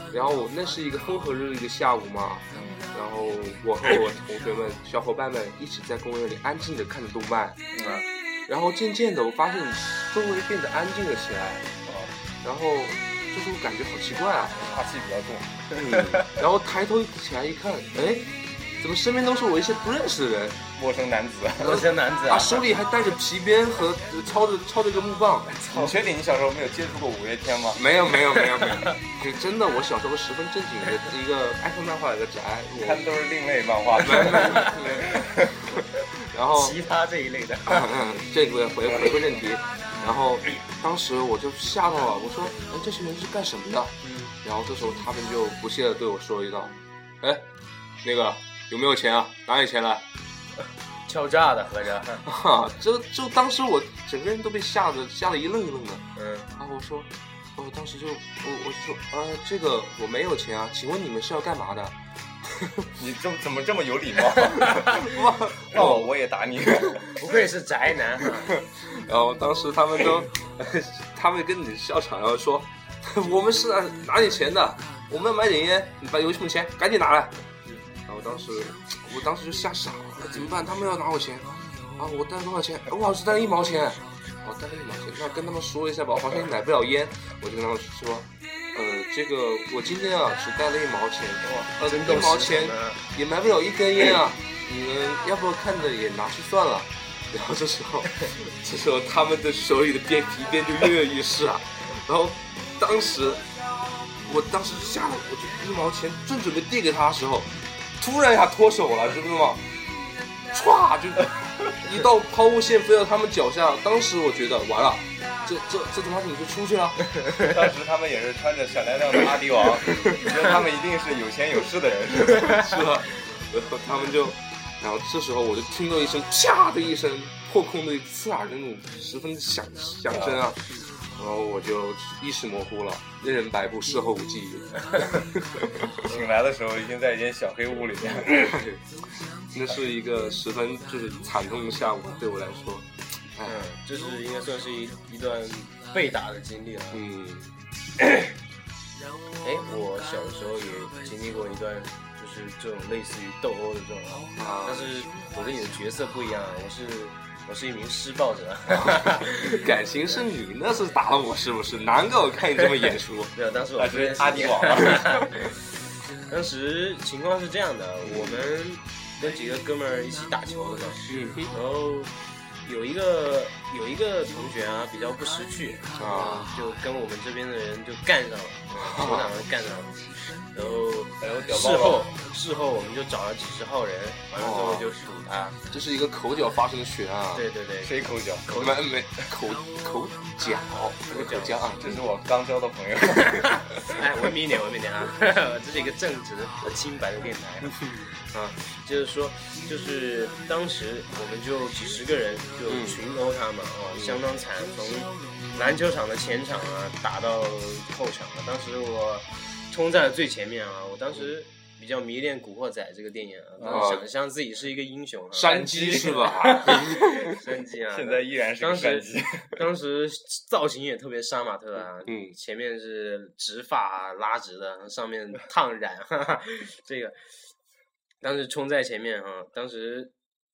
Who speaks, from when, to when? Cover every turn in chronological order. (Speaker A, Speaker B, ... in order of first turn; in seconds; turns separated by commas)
Speaker A: 0.1-7.6, Speaker B: 2.5-2.9, Speaker B: 7.7-8.0, Speaker A: 8.5-11.7, Speaker B: 11.8-12.1, Speaker A: 12.4-14.6, Speaker B: 14.5-15.6, Speaker A: 15.7-18.2, Speaker C: 17.9-18.2, Speaker A: 18.8-20.6, Speaker B: 20.7-21.8, Speaker C: 21.6-22.7, Speaker A: 21.7-25.5, Speaker C: 25.5-26.0, Speaker B: 25.7-27.8, Speaker A: 27.7-33.1, Speaker C: 28.5-28.8, Speaker B: 32.8-35.7, Speaker A: 34.0-35.2, Speaker C: 34.3-34.7, Speaker A: 36.3-36.8, Speaker C: 36.5-37.9, Speaker A: 37.7-47.5, Speaker C: 44.0-44.3, Speaker A: 48.0-50.0, Speaker C: 51.0-52.2, Speaker A: 52.2-56.0, Speaker C: 56.1-56.5, Speaker A: 56.6-61.9, Speaker B: 63.0-65.0, Speaker C: 64.5-64.9, Speaker A: 64.9-66.1, Speaker B: 65.7-67.2, Speaker C: 67.1-68.5, Speaker A: 68.2-77.4, Speaker A: 78.0-103.5, Speaker C: 91.4-93.1, Speaker A: 104.2-109.6, Speaker A: 110.5-117.4, Speaker B: 117.5-122.5, Speaker A: 119.9-120.3, Speaker A: 122.3-136.1, Speaker B: 130.1-130.4, Speaker B: 136.0-138.4, Speaker A: 138.2-143.6, Speaker C: 143.4-147.0, Speaker A: 146.9-147.5, Speaker C: 149.4-160.2, Speaker A: 154.4-154.9, Speaker A: 159.4-163.3, Speaker C: 162.6-165.7, Speaker B: 163.8-165.1, Speaker C: 166.2-185.6, Speaker A: 168.0-168.5, Speaker A: 171.1-171.5, Speaker A: 175.9-176.6, Speaker A: 178.8-179.4, Speaker B: 181.2-182.1, Speaker A: 184.4-184.9, Speaker A: 185.7-187.4, Speaker C: 187.3-188.8, Speaker B: 187.8-188.5, Speaker A: 188.5-192.0, Speaker C: 191.1-191.6, Speaker B: 191.8-193.5, Speaker C: 193.3-227.3, Speaker A: 197.7-198.0, Speaker A: 202.7-203.0, Speaker A: 203.9-204.2, Speaker B: 213.6-214.0, Speaker A: 213.7-214.1, Speaker A: 215.3-217.3, Speaker B: 215.6-216.4, Speaker B: 217.9-219.6, Speaker A: 222.1-222.3, Speaker C: 228.2-230.1